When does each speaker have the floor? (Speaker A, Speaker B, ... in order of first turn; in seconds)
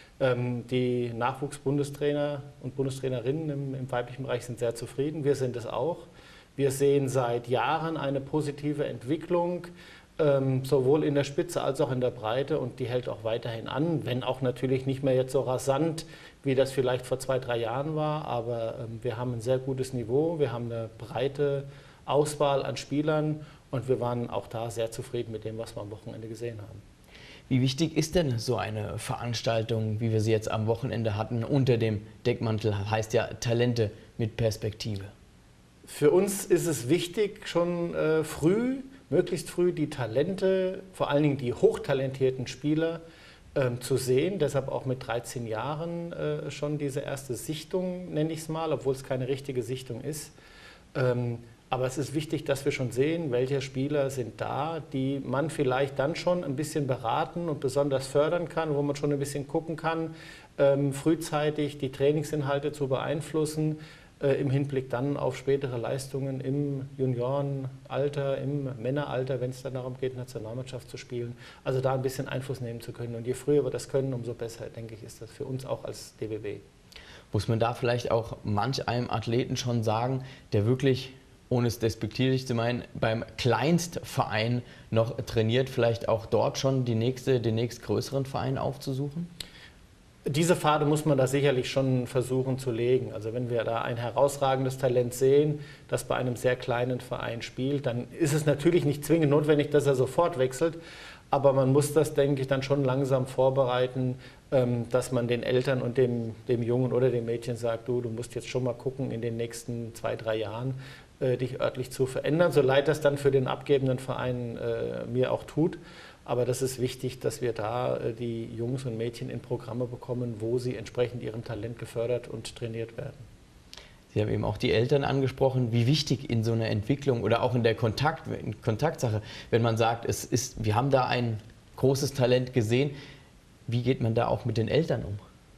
Speaker A: 0.2-26.8, 35.9-43.0, 43.5-50.3, 50.9-76.6, 90.3-100.8, 101.3-123.2
Speaker B: 27.5-35.1, 77.3-89.3, 124.1-133.0, 133.7-135.2